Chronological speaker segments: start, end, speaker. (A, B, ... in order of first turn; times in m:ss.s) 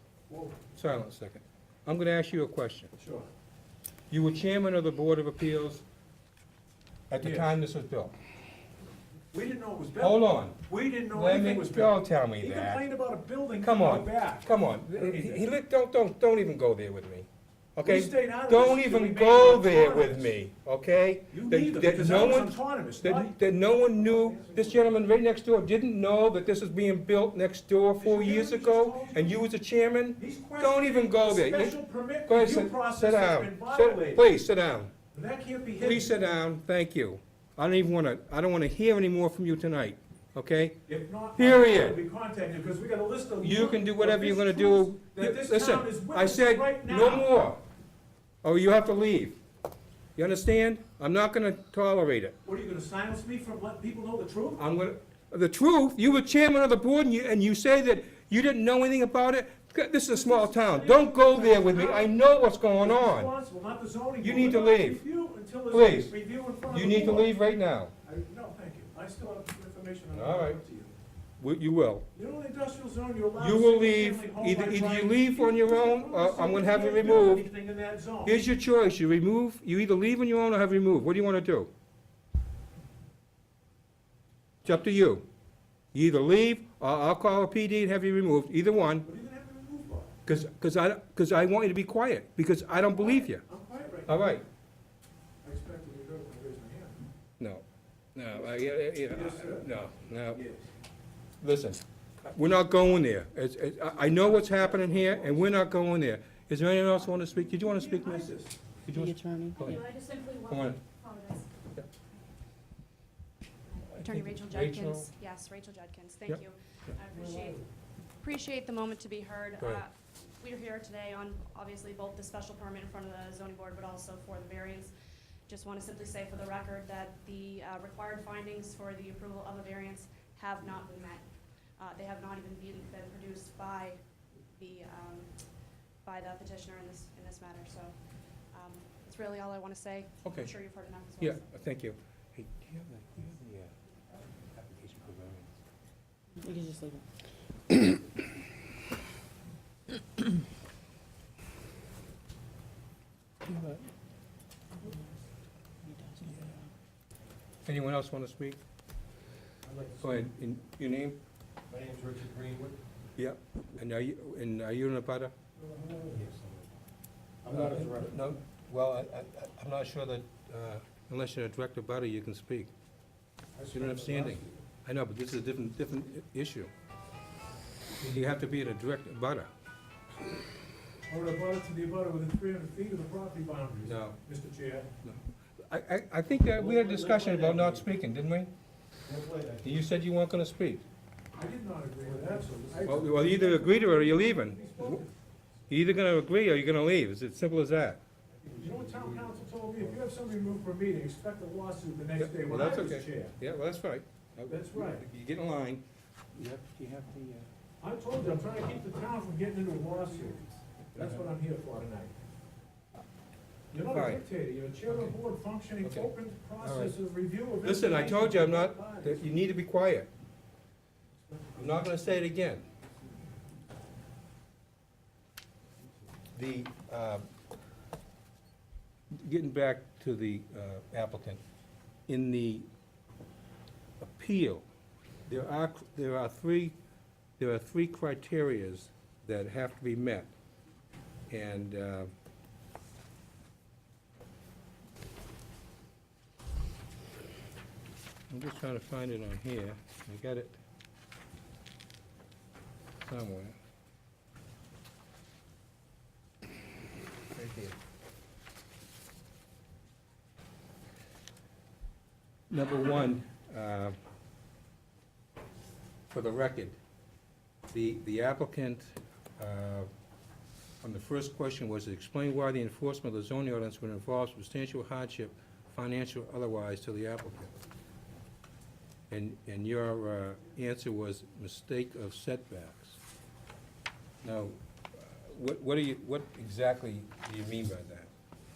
0:00.3-0:00.6 A
0:00.7-0:02.9 B
0:03.0-0:03.3 A
0:04.1-0:05.8 B
0:07.1-0:08.1 B
0:07.2-0:07.5 A
0:09.3-0:15.5 A
0:10.0-0:10.6 B
0:11.1-0:12.8 B
0:13.6-0:34.9 B
0:17.8-0:20.3 A
0:21.3-0:25.0 A
0:28.0-0:29.4 A
0:30.2-0:34.2 A
0:35.1-0:36.1 A
0:35.8-0:40.8 B
0:40.9-0:47.3 A
0:41.4-0:42.0 B
0:43.4-0:47.6 B
0:48.4-0:49.4 B
0:50.2-0:52.3 B
0:52.4-0:54.6 A
0:54.6-1:03.3 B
1:00.1-1:02.2 A
1:02.7-1:07.3 A
1:04.2-1:05.0 B
1:05.7-1:06.1 B
1:06.6-1:07.9 B
1:08.0-1:10.9 A
1:10.1-1:10.6 B
1:11.4-1:12.1 B
1:12.1-1:18.4 A
1:13.4-1:17.5 B
1:18.2-1:21.7 B
1:24.6-1:25.2 B
1:25.9-1:29.0 B
1:29.0-1:30.1 A
1:30.2-1:33.4 B
1:32.9-1:34.4 A
1:34.1-1:34.4 B
1:35.4-1:37.0 A
1:37.4-1:37.6 B
1:38.1-1:40.4 B
1:39.1-1:39.7 A
1:40.3-1:40.7 A
1:41.4-1:48.3 B
1:44.2-1:45.5 A
1:47.6-1:48.6 A
1:48.9-1:49.8 B
1:48.9-1:49.8 C
1:49.6-1:51.5 D
1:50.5-1:50.8 B
1:54.0-1:55.1 B
1:54.0-1:57.6 D
1:57.1-1:57.6 A
1:58.2-2:04.9 D
2:05.5-2:11.2 D
2:11.8-2:15.3 D
2:16.0-2:17.9 D
2:18.5-2:21.4 D
2:20.2-2:20.5 B
2:21.2-2:23.7 B
2:24.5-2:25.5 B
2:26.4-2:27.0 C
2:27.7-2:28.0 C
2:35.8-2:36.7 C
2:37.7-2:38.6 B
2:39.6-2:40.2 E
2:40.0-2:41.2 B
2:41.7-2:42.8 E
2:43.2-2:45.3 B
2:45.6-2:46.7 E
2:47.4-2:48.1 E
2:47.5-2:52.7 B
2:53.6-2:54.5 A
2:53.7-2:56.7 B
2:58.0-2:59.5 B
3:01.1-3:04.9 A
3:03.9-3:04.2 B
3:05.0-3:08.5 B
3:06.5-3:07.8 E
3:09.0-3:09.8 E
3:09.6-3:10.8 B
3:11.4-3:15.1 A
3:12.0-3:13.4 E
3:12.8-3:15.0 B
3:15.7-3:18.0 B
3:18.4-3:19.4 E
3:18.6-3:23.4 A
3:22.2-3:25.8 B
3:24.5-3:25.0 A
3:26.3-3:27.5 B
3:27.8-3:32.1 A
3:30.9-3:31.2 B
3:33.7-3:39.2 A
3:33.9-3:34.2 B
3:35.8-3:37.0 B
3:37.6-3:40.1 B
3:41.6-3:42.6 B
3:46.3-3:47.3 B
3:49.1-3:51.4 B
3:52.1-3:52.7 B
3:54.0-3:54.6 B
3:55.3-3:56.8 B
3:57.4-4:00.3 B
4:01.3-4:02.1 B
4:08.3-4:10.6 B
4:13.0-4:13.6 B
4:17.3-4:17.8 B
4:22.5-4:24.0 B
4:26.1-4:26.8 B
4:27.7-4:29.9 B
4:30.8-4:37.5 B
4:39.1-4:43.0 B
4:44.2-4:48.1 B